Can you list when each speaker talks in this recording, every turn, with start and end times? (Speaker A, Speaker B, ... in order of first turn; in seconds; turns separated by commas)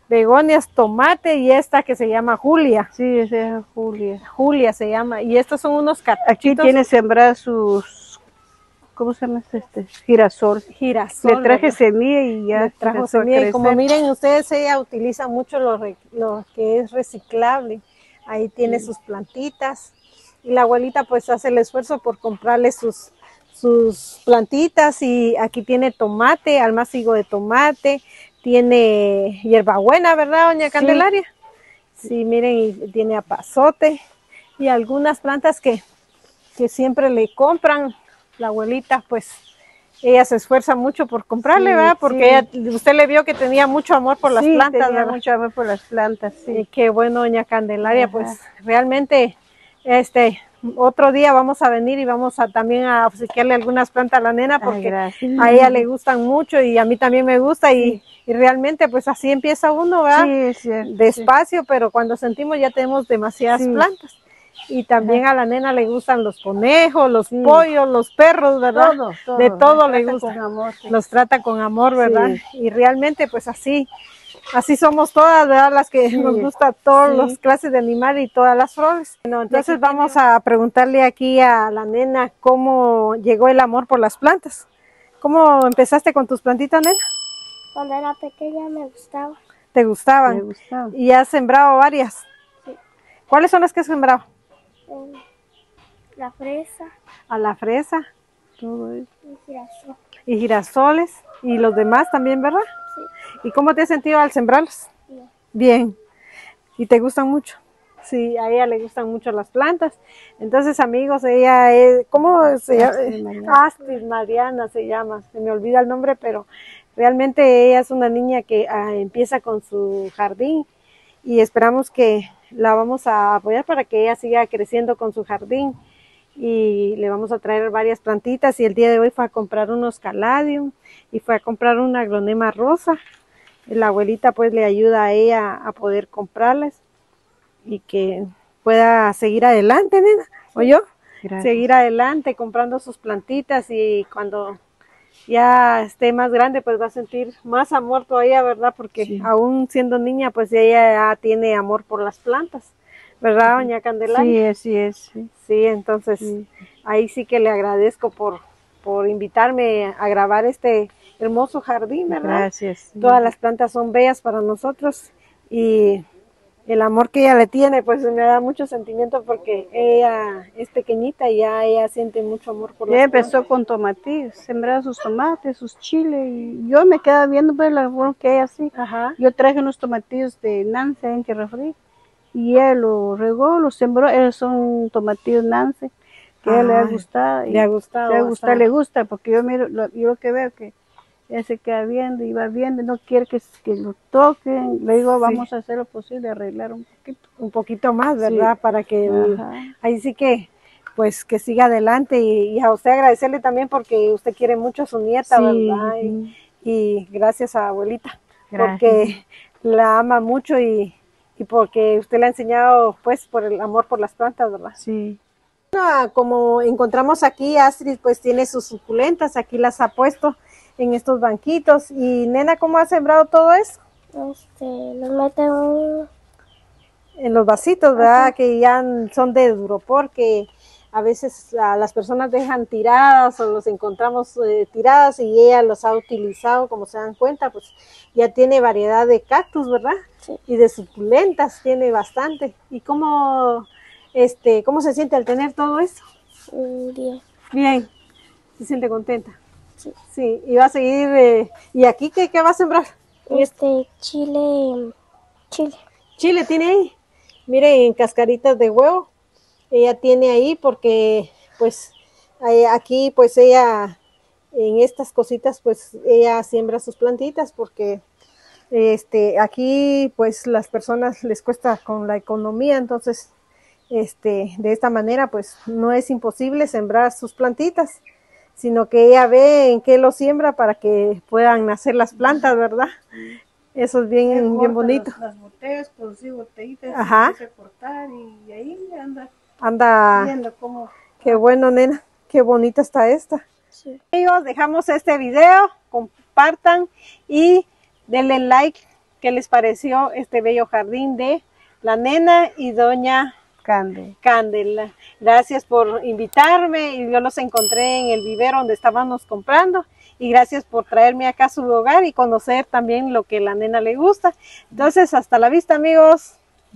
Speaker A: 0.1-2.9, Speaker B: 2.9-4.2, Speaker A: 4.2-6.8, Speaker B: 6.2-8.2, Speaker B: 9.0-10.7, Speaker A: 10.7-11.8, Speaker B: 11.2-13.8, Speaker A: 12.5-31.2, Speaker B: 30.6-31.1, Speaker A: 32.0-34.0, Speaker A: 34.6-35.8, Speaker A: 36.6-39.4, Speaker A: 40.0-45.2, Speaker B: 41.5-42.5, Speaker B: 44.2-46.6, Speaker A: 46.5-60.3, Speaker B: 47.8-48.4, Speaker B: 54.6-55.9, Speaker B: 60.1-61.3, Speaker A: 60.9-64.2, Speaker B: 63.5-63.9, Speaker A: 64.7-70.4, Speaker B: 68.7-71.0, Speaker A: 70.9-73.9, Speaker B: 72.0-72.4, Speaker A: 74.5-84.7, Speaker B: 76.1-77.4, Speaker B: 79.5-80.2, Speaker A: 85.2-87.0, Speaker C: 87.8-89.4, Speaker A: 89.7-92.2, Speaker B: 90.3-91.0, Speaker A: 93.3-94.2, Speaker C: 94.9-95.2, Speaker C: 96.2-96.9, Speaker A: 97.3-98.0, Speaker B: 98.6-99.1, Speaker C: 99.3-100.0, Speaker A: 100.3-102.6, Speaker A: 103.4-104.9, Speaker A: 105.5-106.0, Speaker A: 106.8-120.7, Speaker B: 112.5-113.7, Speaker A: 121.2-125.7, Speaker A: 126.4-133.0, Speaker A: 133.7-136.8, Speaker A: 137.7-140.8, Speaker B: 141.2-141.6, Speaker A: 141.4-144.6, Speaker A: 145.3-154.4, Speaker B: 149.0-149.3, Speaker B: 153.5-155.3, Speaker A: 155.4-156.3, Speaker B: 156.2-156.5, Speaker A: 156.9-162.5, Speaker B: 162.1-163.3, Speaker A: 163.0-166.0, Speaker A: 166.7-173.3, Speaker B: 172.9-181.8, Speaker A: 178.7-179.2, Speaker B: 182.3-185.9, Speaker A: 186.4-188.7, Speaker B: 186.4-190.7, Speaker B: 191.3-197.2, Speaker A: 197.4-214.8, Speaker B: 198.2-198.5, Speaker B: 199.1-199.7, Speaker B: 205.3-206.3, Speaker B: 208.5-209.2, Speaker B: 214.8-215.2, Speaker A: 215.7-223.8, Speaker C: 224.2-226.1, Speaker A: 227.2-240.0, Speaker C: 228.0-228.3, Speaker A: 240.5-246.0, Speaker C: 246.5-247.2, Speaker A: 247.5-247.9, Speaker A: 248.6-249.4, Speaker A: 250.1-253.5, Speaker C: 253.3-254.9, Speaker C: 255.5-255.8, Speaker A: 256.2-256.9, Speaker A: 257.5-259.1, Speaker A: 259.7-264.0, Speaker A: 264.5-268.0, Speaker A: 268.7-273.3, Speaker A: 273.9-278.0, Speaker A: 278.6-282.9, Speaker A: 283.8-285.1, Speaker B: 284.3-289.3, Speaker A: 286.9-287.4, Speaker A: 289.6-290.3, Speaker B: 290.1-291.4, Speaker A: 291.2-293.4, Speaker A: 294.1-303.3, Speaker B: 303.6-304.1, Speaker A: 304.2-316.4